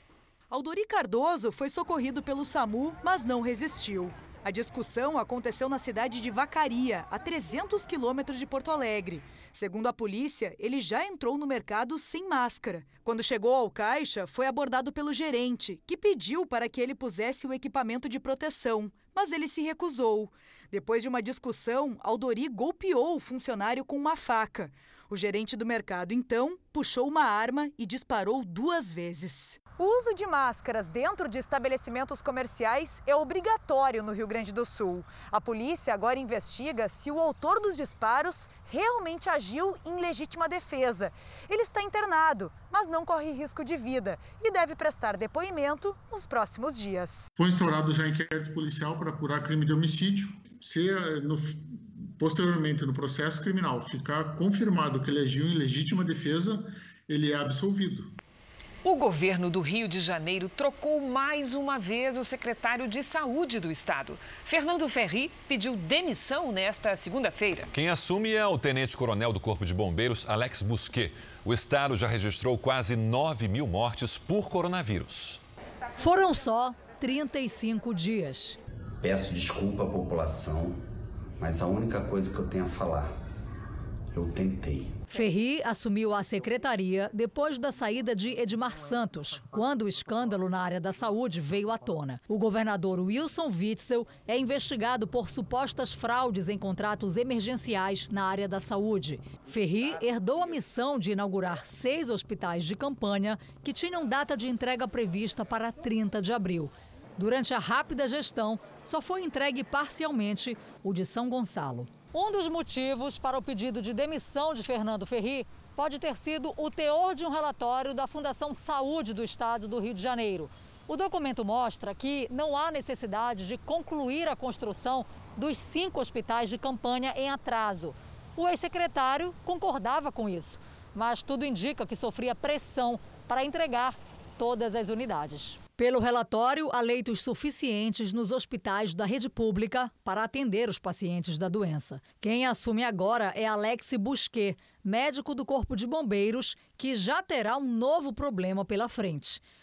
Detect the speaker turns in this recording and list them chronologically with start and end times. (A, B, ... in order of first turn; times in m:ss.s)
0:00.5-0:47.3 A
0:47.4-0:58.1 B
0:58.8-1:07.7 C
1:07.7-1:15.4 D
1:16.0-1:18.6 E
1:19.0-1:20.8 F
1:21.4-1:23.2 F
1:24.1-1:25.0 F
1:25.1-2:29.4 E